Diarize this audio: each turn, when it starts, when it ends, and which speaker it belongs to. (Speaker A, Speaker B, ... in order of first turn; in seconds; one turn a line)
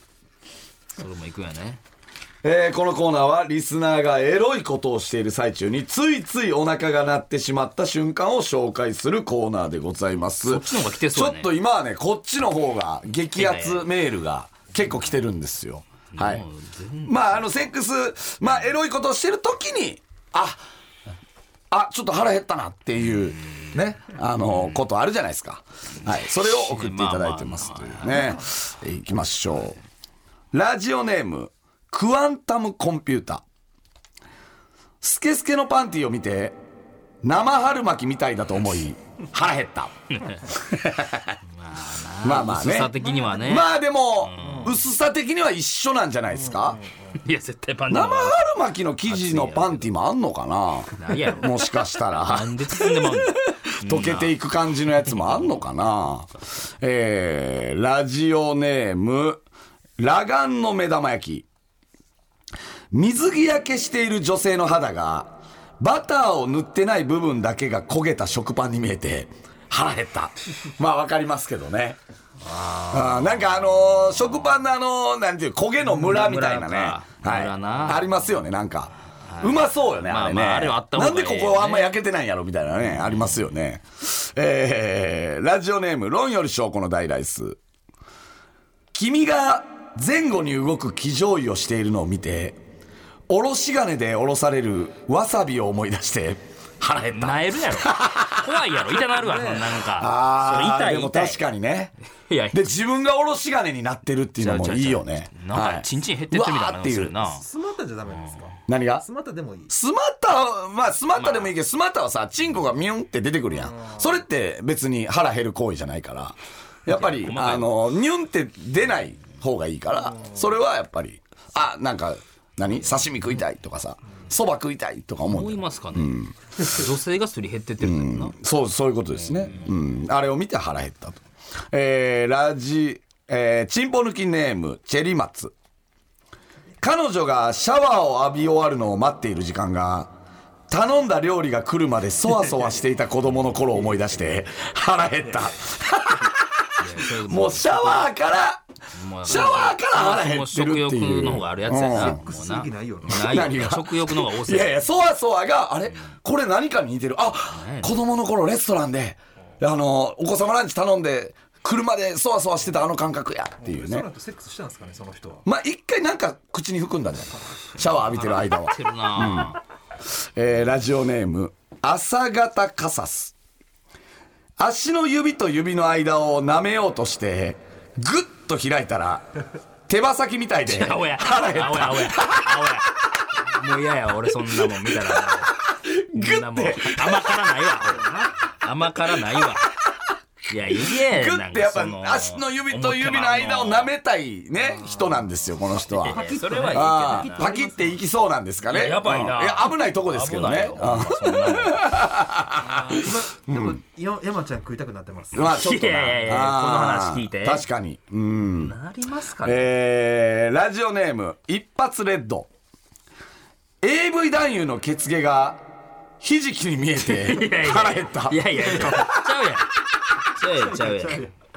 Speaker A: 0.9-1.8
Speaker B: 2.4-16.4
Speaker A: 10.4-11.5
Speaker A: 13.3-13.9
Speaker A: 16.1-17.7
Speaker B: 17.1-20.6
Speaker B: 21.7-29.8
Speaker A: 24.5-24.8
Speaker A: 26.3-28.4
Speaker B: 30.5-33.4
Speaker B: 35.0-36.6
Speaker B: 37.2-39.9
Speaker A: 40.1-40.5
Speaker B: 40.5-41.4
Speaker A: 41.5-44.8
Speaker B: 42.2-46.8
Speaker C: 44.4-44.8
Speaker C: 46.5-46.9
Speaker A: 47.2-48.5
Speaker B: 47.9-59.4
Speaker A: 49.0-49.9
Speaker A: 51.0-54.4
Speaker B: 60.0-61.5
Speaker B: 62.9-72.0
Speaker A: 72.4-74.0
Speaker B: 72.9-87.6
Speaker A: 75.9-78.1
Speaker A: 79.3-82.0
Speaker A: 82.9-83.4
Speaker B: 88.9-92.6
Speaker B: 93.3-98.6
Speaker A: 97.0-101.4
Speaker C: 99.1-99.7
Speaker B: 99.8-101.9
Speaker A: 102.3-102.7
Speaker B: 102.5-107.2
Speaker A: 104.4-107.4
Speaker C: 107.4-109.7
Speaker A: 108.1-108.5
Speaker B: 108.7-109.0
Speaker B: 109.7-126.3
Speaker A: 111.2-111.5
Speaker A: 116.9-117.7
Speaker A: 125.2-128.3
Speaker B: 127.8-131.2
Speaker A: 129.4-129.7
Speaker B: 131.7-135.5
Speaker B: 136.8-140.1
Speaker B: 140.7-148.6
Speaker A: 146.8-148.1
Speaker A: 148.9-154.8
Speaker B: 149.2-152.2
Speaker C: 151.9-153.5
Speaker B: 153.1-164.1
Speaker A: 157.5-158.0
Speaker C: 163.6-165.4
Speaker B: 165.4-169.6
Speaker A: 167.8-169.6
Speaker B: 170.3-173.3
Speaker B: 174.6-179.2
Speaker B: 179.9-182.8
Speaker A: 180.7-185.5
Speaker B: 184.5-187.5
Speaker A: 186.1-188.1
Speaker C: 188.0-188.3
Speaker A: 188.6-189.7
Speaker B: 189.3-189.7
Speaker A: 190.5-193.9
Speaker B: 190.7-203.8
Speaker C: 194.6-195.2
Speaker A: 195.9-197.5
Speaker C: 195.9-198.0
Speaker A: 198.7-202.0
Speaker C: 202.6-205.5
Speaker B: 205.3-208.8
Speaker A: 205.3-207.6
Speaker A: 208.6-209.7
Speaker B: 209.4-212.5
Speaker B: 213.8-215.6
Speaker B: 216.2-219.4
Speaker A: 217.0-219.7
Speaker A: 220.3-221.3
Speaker C: 220.7-221.3